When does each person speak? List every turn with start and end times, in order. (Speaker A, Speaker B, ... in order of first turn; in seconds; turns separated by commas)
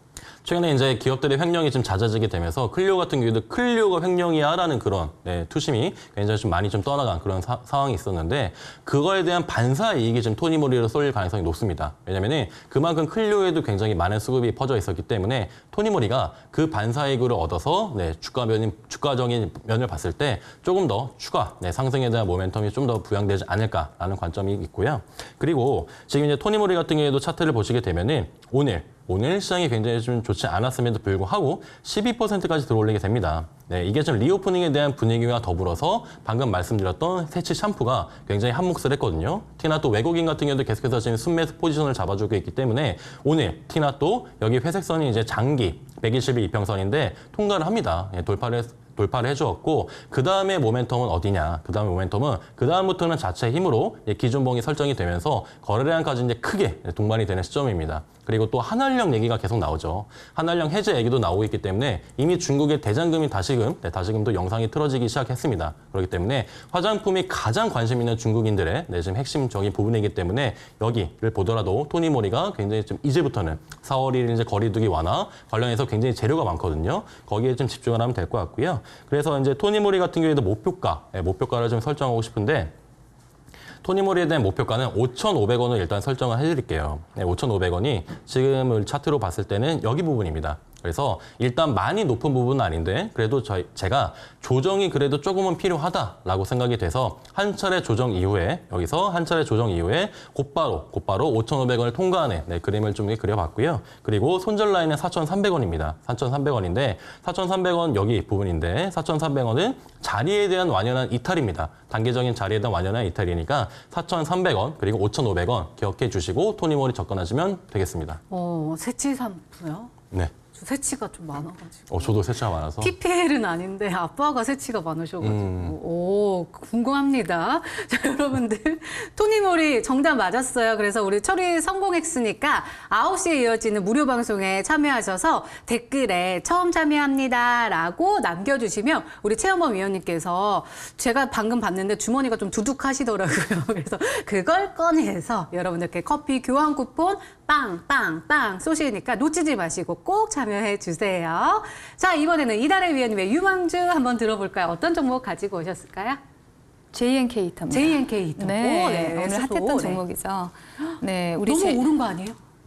Speaker A: 0.4-82.7, Speaker A: 83.8-118.2, Speaker B: 118.3-119.9, Speaker B: 120.5-122.2, Speaker A: 121.9-123.0, Speaker B: 122.8-156.2, Speaker A: 125.2-125.8, Speaker C: 156.9-161.9, Speaker B: 157.7-160.0, Speaker B: 161.5-162.4